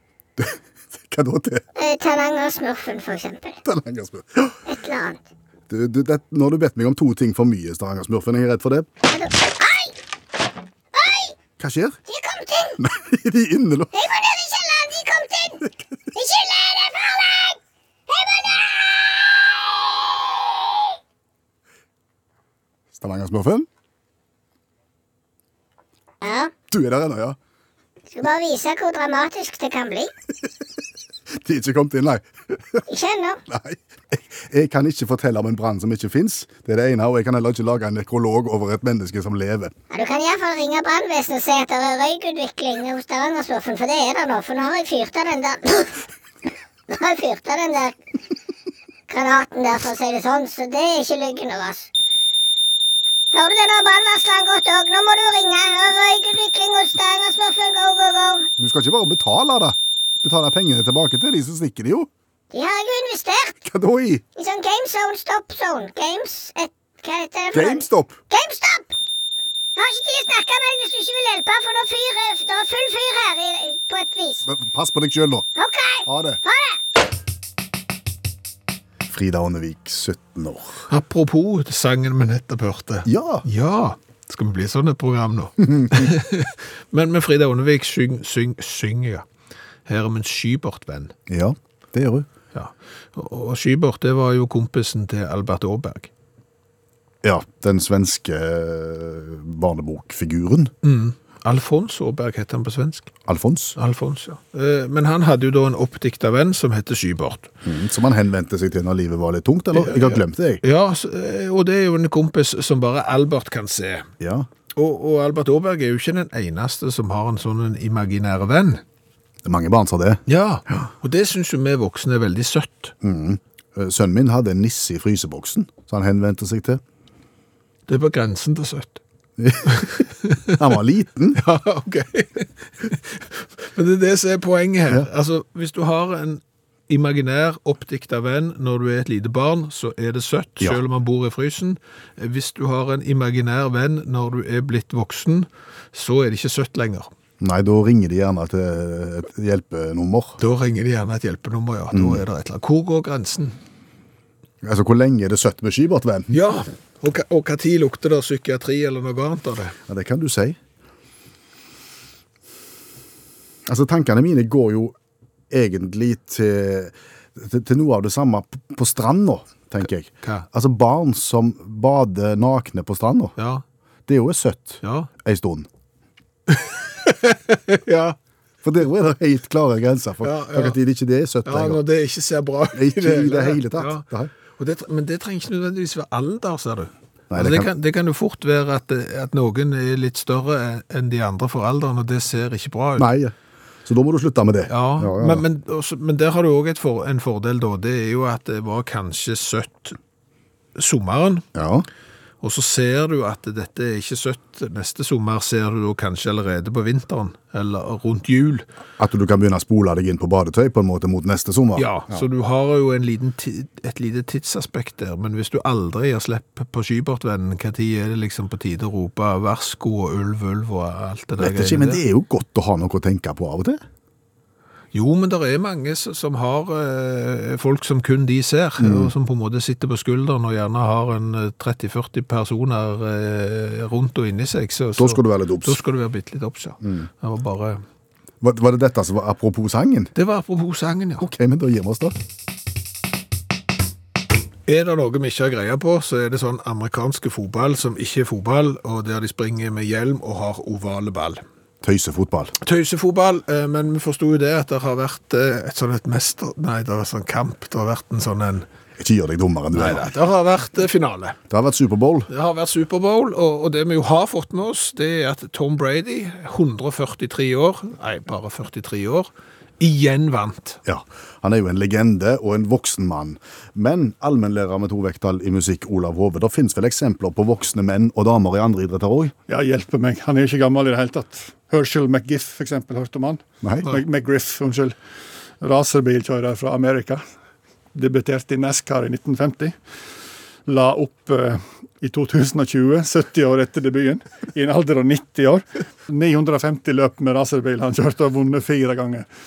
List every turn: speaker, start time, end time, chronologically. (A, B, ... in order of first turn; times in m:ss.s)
0:00.4-0:01.6 A
0:01.7-0:03.6 B
0:03.6-0:04.6 A
0:04.6-0:05.2 B
0:05.7-0:08.9 A
0:09.1-0:10.0 B
0:10.9-0:11.4 B
0:11.6-0:12.0 A
0:12.1-0:12.8 B
0:12.8-0:13.9 A
0:13.9-0:19.8 B
0:22.9-0:23.7 A
0:26.2-0:26.5 B
0:26.7-0:27.4 A
0:28.1-0:30.1 B
0:31.3-0:32.8 A
0:32.9-0:33.4 B
0:33.5-0:39.7 A
0:39.9-0:46.0 B
0:46.9-0:48.0 B
0:49.1-0:51.9 B
0:53.3-0:58.5 B
0:58.6-1:02.1 A
1:02.5-1:03.6 B
1:03.6-1:04.2 A
1:04.4-1:08.9 B
1:07.5-1:08.2 A
1:09.8-1:14.4 B
1:14.4-1:15.5 A
1:15.6-1:16.8 B
1:16.0-1:16.4 A
1:19.0-1:20.9 A
1:20.9-1:29.2 C
1:23.0-1:23.4 A
1:25.6-1:26.1 A
1:29.9-1:31.1 C
1:31.3-1:32.3 A
1:32.5-1:36.1 C
1:37.2-1:40.7 A
1:40.8-1:43.1 C
1:43.3-1:43.8 A
1:43.8-1:47.5 C
1:47.6-1:50.6 A
1:49.7-1:54.1 C
1:54.2-1:54.5 A
1:54.8-1:58.8 C
1:59.4-2:00.2 A
2:00.3-2:02.9 C
2:03.0-2:06.8 A
2:07.9-2:09.0 C
2:09.4-2:11.4 A
2:09.7-2:10.6 C
2:11.3-2:27.1 C
2:27.4-2:30.4 A
2:30.4-2:33.6 C
2:31.9-2:32.2 A
2:34.6-2:36.3 A
2:36.3-2:39.8 C
2:39.9-2:40.6 A
2:43.6-2:44.9 A
2:45.5-2:53.3 A
2:53.4-2:53.6 C
2:54.1-2:55.7 A
2:54.8-2:55.1 C
2:56.5-2:58.2 C
2:58.6-3:01.8 A
3:00.2-3:00.8 C
3:01.4-3:04.0 C
3:02.7-3:04.3 A
3:04.6-3:13.1 C
3:07.3-3:07.7 A
3:13.0-3:13.3 A
3:13.8-3:15.4 A
3:14.7-3:20.0 C
3:20.8-3:21.5 C
3:21.5-3:21.8 A
3:22.4-3:28.6 C
3:29.0-3:32.2 A
3:31.8-3:42.0 C
3:41.4-3:43.8 A
3:44.9-3:57.8 C
3:48.8-3:49.1 A
3:55.0-3:55.8 A
3:56.8-3:57.1 A
3:58.4-4:00.1 A
4:00.2-4:01.3 C
4:01.2-4:02.2 A
4:04.7-4:11.4 C
4:11.8-4:12.5 A
4:12.6-4:18.6 C
4:19.0-4:20.0 A
4:19.7-4:21.4 C
4:21.5-4:22.3 A
4:22.3-4:30.8 C
4:30.8-4:39.3 A
4:39.5-4:44.9 D
4:45.6-4:47.2 D
4:47.9-4:49.8 D
4:50.7-4:59.2 D